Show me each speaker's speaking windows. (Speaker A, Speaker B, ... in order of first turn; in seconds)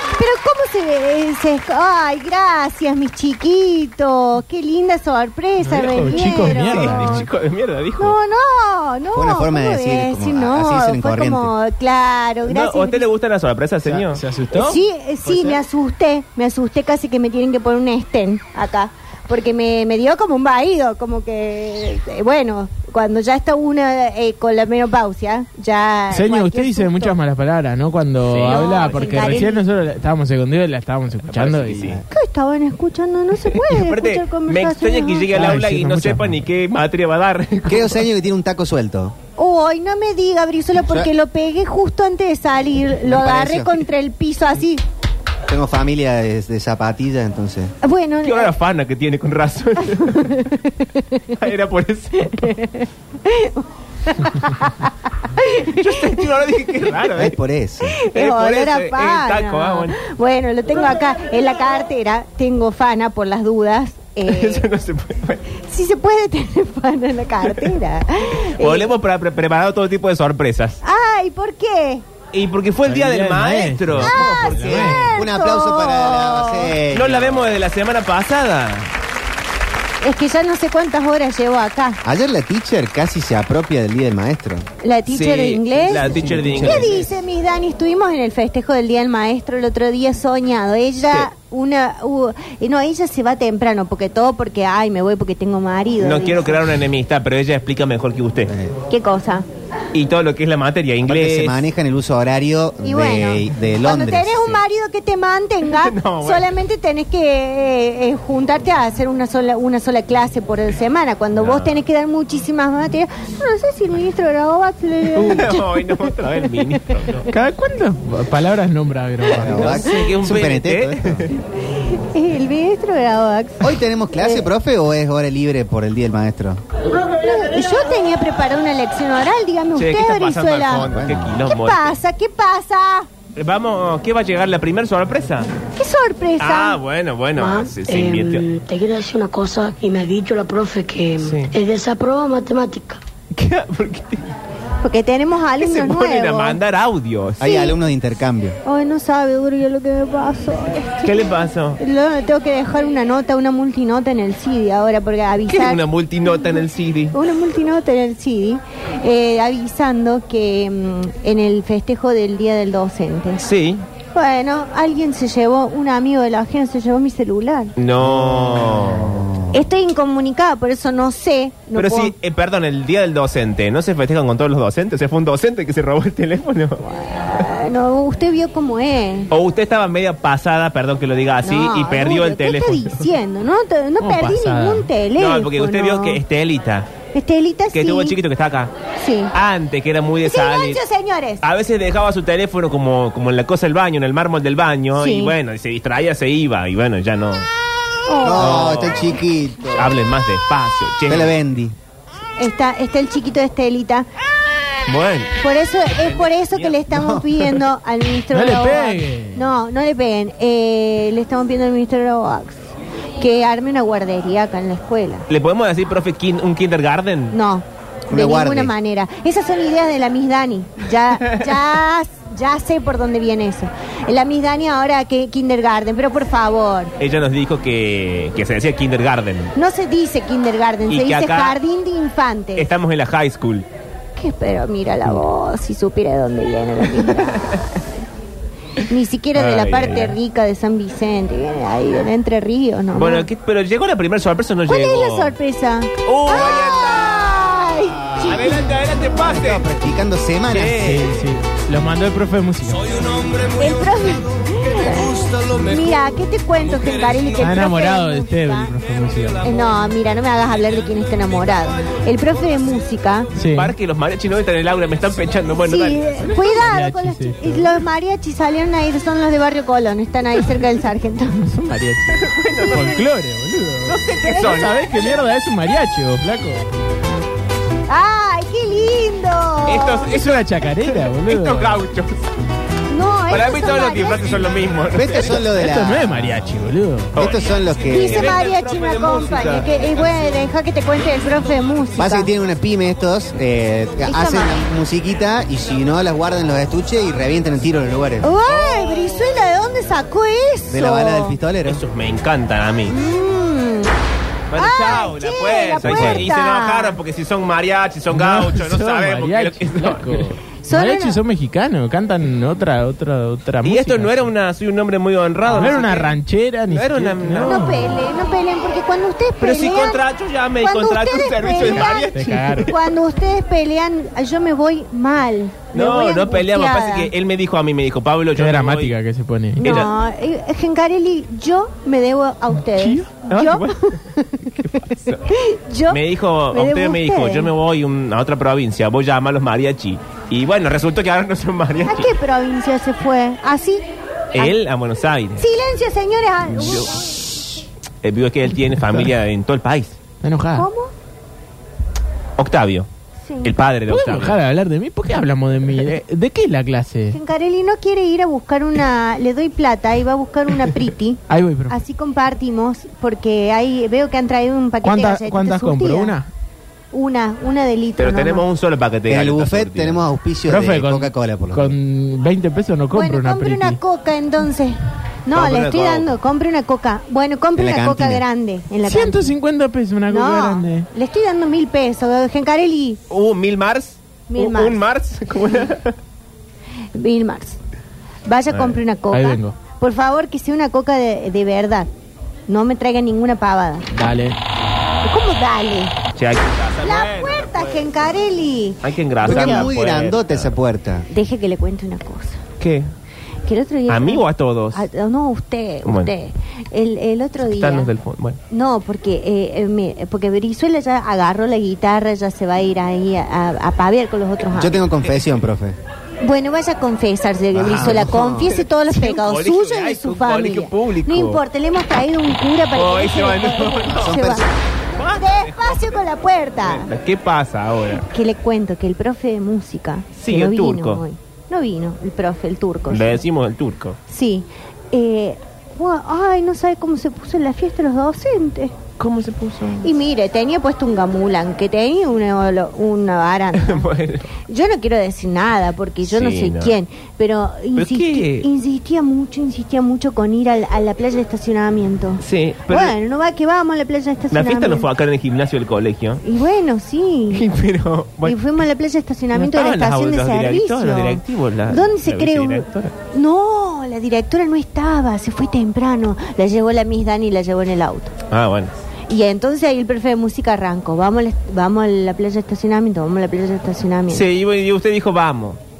Speaker A: 0.1-7.2, 8.0-13.0, 14.5-27.2, 28.4-29.7, 32.1-35.3, 39.4-44.8, 47.8-48.5, 49.9-51.4, 52.2-56.9, 57.9-64.7, 65.6-68.9, 70.8-72.0, 74.0-76.7, 80.0-82.0, 84.8-96.6, 98.9-99.5, 102.8-116.7, 122.1-124.5, 127.1-130.9, 131.4-133.1, 135.8-136.8, 144.8-146.6, 147.4-147.7, 148.6-156.6, 157.1-163.4, 164.1-167.7, 169.5-172.1, 176.8-179.3, 181.4-186.2, 187.1-188.1, 189.0-189.3, 190.2-191.4, 194.9-195.3, 198.1-198.7, 202.4-204.1, 205.4-212.6, 213.2-215.2, 217.3-226.9, 229.6-232.7, 234.2-237.4, 238.9-243.3, 244.7-248.6, 253.6-258.7, 259.4-263.3, 265.7-271.4, 272.6-273.0, 274.2-274.8, 277.9-280.1, 282.9-284.4, 287.9-292.3, 294.0-294.6, 298.2-301.4, 302.9-303.9, 304.6-307.0, 310.6-311.2, 317.4-320.0, 320.6-327.1, 329.6-337.5, 341.9-343.8, 345.4-347.2, 350.5-350.9, 353.3-353.5, 357.1-366.1, 366.9-368.4, 372.9-379.3, 380.1-383.0, 384.3-384.8, 386.9-387.6, 388.3-391.9, 392.5-393.9, 395.0-395.9, 396.8-399.7, 401.1-402.4, 403.5-407.9, 408.5-414.9, 416.2-424.4, 425.1-426.9, 428.0-433.2, 434.1-438.8, 439.8-443.9, 444.5-454.9, 456.2-457.4, 458.2-468.1, 469.1-474.2
Speaker B: 5.6-7.3, 13.8-14.8, 26.1-31.9, 35.3-36.4, 72.8-75.0, 117.3-119.8, 184.0-184.9, 208.3-209.4, 250.6-252.9, 257.4-259.4, 263.4-263.7, 266.3-267.7, 271.4-276.6, 280.2-281.8, 285.6-287.1, 308.1-314.2, 315.4-318.0, 321.6-322.7, 328.4-329.8, 332.8-333.1, 350.2-350.7, 353.9-357.2, 361.3-361.8, 364.8-366.3, 370.5-373.8, 378.9-380.9, 389.1-389.6, 393.9-394.4
Speaker C: 6.4-8.2, 12.5-14.2, 28.3-29.5, 31.3-32.0, 33.5-38.0, 48.2-50.4, 51.4-52.5, 55.6-57.4, 58.1-60.0, 64.3-65.4, 68.4-70.8, 72.3-75.1, 76.9-78.9, 85.1-87.1, 96.0-98.5, 99.9-101.6, 105.8-106.5, 111.3-111.7, 115.2-117.2, 119.4-121.3, 129.8-131.9, 133.3-135.5, 136.4-138.4, 141.2-141.5, 143.3-144.2, 145.6-147.4, 151.0-151.8, 155.5-157.1, 163.4-163.8, 167.8-169.3, 171.8-176.8, 179.3-183.0, 185.2-186.9, 187.7-188.7, 189.3-190.8, 191.4-197.5, 198.4-199.2, 199.7-201.3, 204.9-205.3, 205.9-207.5, 215.3-217.3, 227.0-229.5, 230.9-231.6, 232.6-233.7, 237.2-237.5, 239.3-240.2, 242.9-245.3, 246.1-247.3, 248.2-249.8, 250.5-250.9, 263.5-266.2, 272.2-273.0, 273.9-275.0, 279.6-282.2, 283.3-285.5, 287.1-289.9, 298.4-299.3, 301.6-302.9, 304.5-310.2, 313.6-316.1, 316.7-317.6, 319.4-322.7, 325.7-328.9, 329.6-329.9, 333.3-333.7, 334.6-335.2, 335.9-342.1, 344.3-345.4, 346.5-347.0, 348.0-350.0, 352.4-352.9, 353.4-354.4, 368.0-370.0, 375.3-376.1, 383.1-385.9, 388.5-388.8, 396.1-397.9, 398.8-400.6, 402.6-402.9, 403.9-404.8, 405.8-406.1, 407.4-408.4, 417.5-421.4, 422.7-424.2, 424.9-426.0, 426.6-428.1, 430.2-431.0, 432.9-434.0, 439.0-439.9, 443.5-444.3, 446.1-446.7, 447.8-448.5, 452.2-452.9, 454.3-456.2, 457.3-458.4, 459.3-462.9, 468.3-468.7, 474.1-475.6
Speaker D: 9.1-11.5, 31.7-32.0, 37.7-39.1, 43.1-43.7, 45.5-47.7, 57.1-58.0, 75.1-77.5, 82.0-84.7, 86.4-86.8, 98.5-98.7, 101.0-104.6, 119.3-121.3, 123.6-126.6, 130.8-131.4, 147.4-148.6, 168.1-169.5, 198.2-199.9, 201.1-201.7, 218.1-218.7, 246.3-247.2, 248.0-248.5, 249.1-251.1, 284.9-286.4, 287.1-288.3, 292.0-298.3, 300.7-301.8, 369.1-371.7, 377.5-378.2, 399.2-401.1, 414.5-415.8, 417.6-418.5, 423.9-424.5
Speaker E: 137.3-143.0